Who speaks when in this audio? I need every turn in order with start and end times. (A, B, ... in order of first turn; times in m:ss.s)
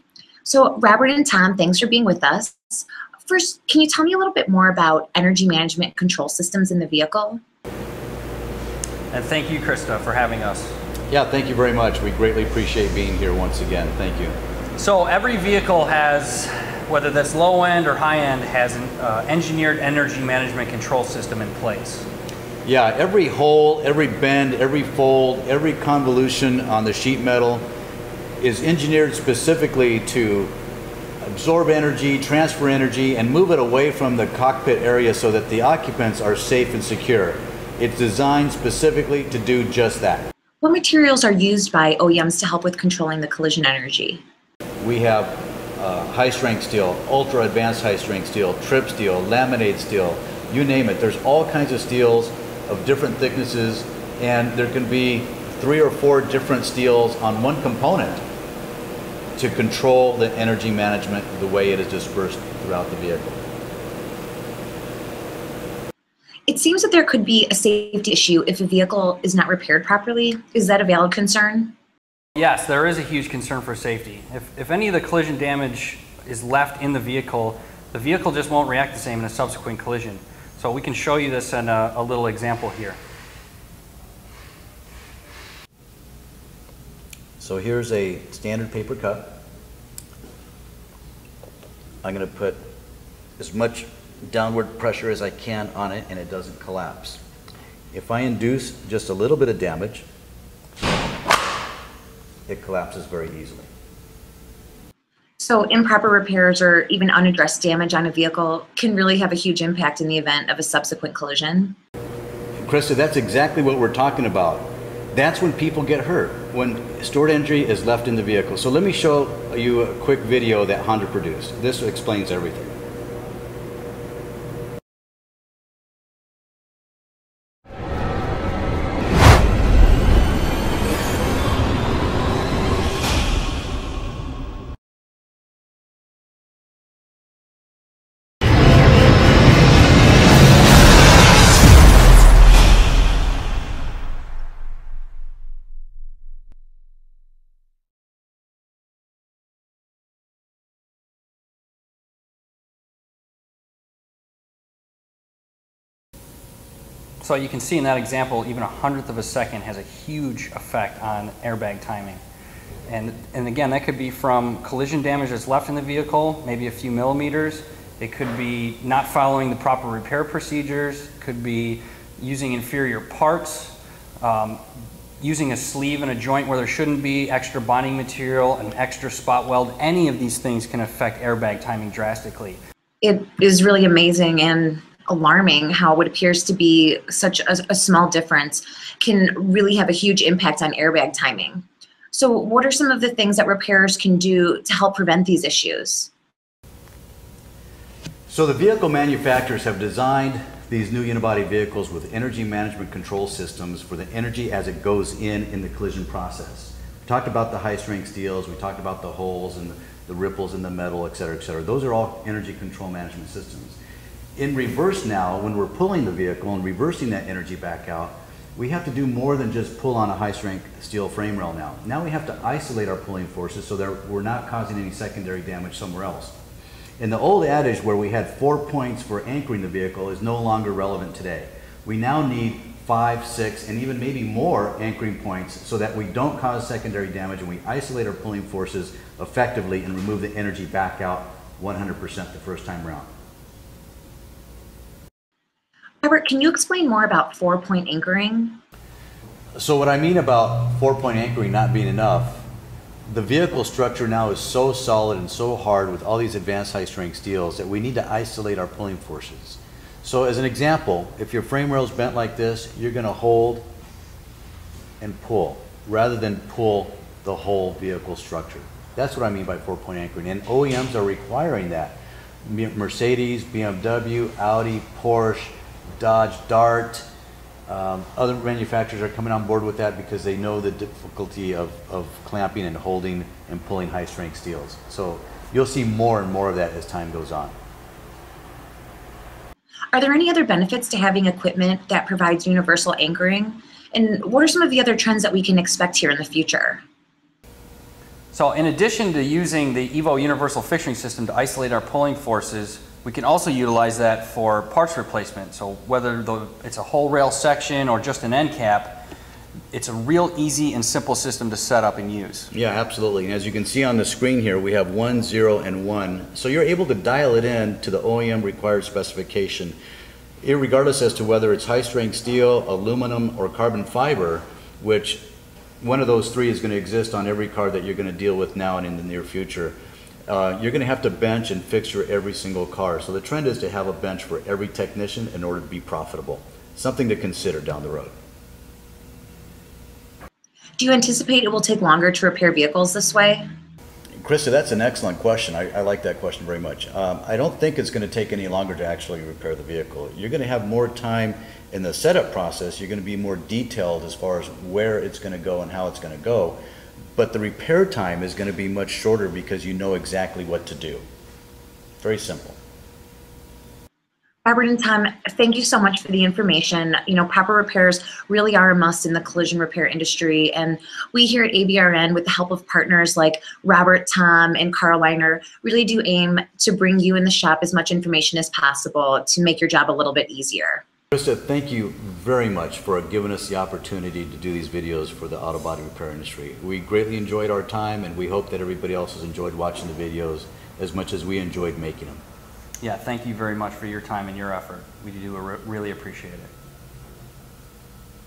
0:00.4-0:07.4 A
0:09.1-0:10.7 B
0:11.1-0:14.4 C
0:14.8-0:22.0 B
0:22.6-0:27.6 C
0:28.4-0:30.5 C
0:31.2-0:40.3 C
0:40.6-0:44.2 A
0:44.8-0:58.2 C
0:59.4-1:03.4 C
1:06.5-1:11.7 A
1:12.4-1:23.0 B
1:27.4-1:29.4 C
1:32.0-1:32.6 C
1:33.4-1:37.2 C
1:37.9-1:40.0 C
1:42.5-1:43.7 C
1:45.4-1:51.8 A
1:52.6-2:02.7 C
2:37.2-2:42.2 B
2:42.9-2:54.6 B
2:55.2-3:02.6 B
3:03.0-3:16.1 A
3:18.3-3:33.8 C
3:34.4-3:46.4 C
3:47.0-4:03.1 C
4:06.0-4:08.6 A
4:09.6-4:12.5 C
4:13.0-4:23.6 C
4:25.0-4:37.1 C
4:37.7-4:47.5 C
4:49.9-4:56.8 A
4:58.3-5:09.0 B
5:09.7-5:12.5 B
5:12.5-5:19.8 C
5:20.4-5:25.2 C
5:25.8-5:38.1 C
5:40.8-5:43.4 A
5:44.2-5:56.6 C
5:57.2-6:01.0 C
6:02.0-6:02.6 C
6:04.4-6:20.8 A
6:21.1-6:32.2 C
6:32.8-6:36.5 B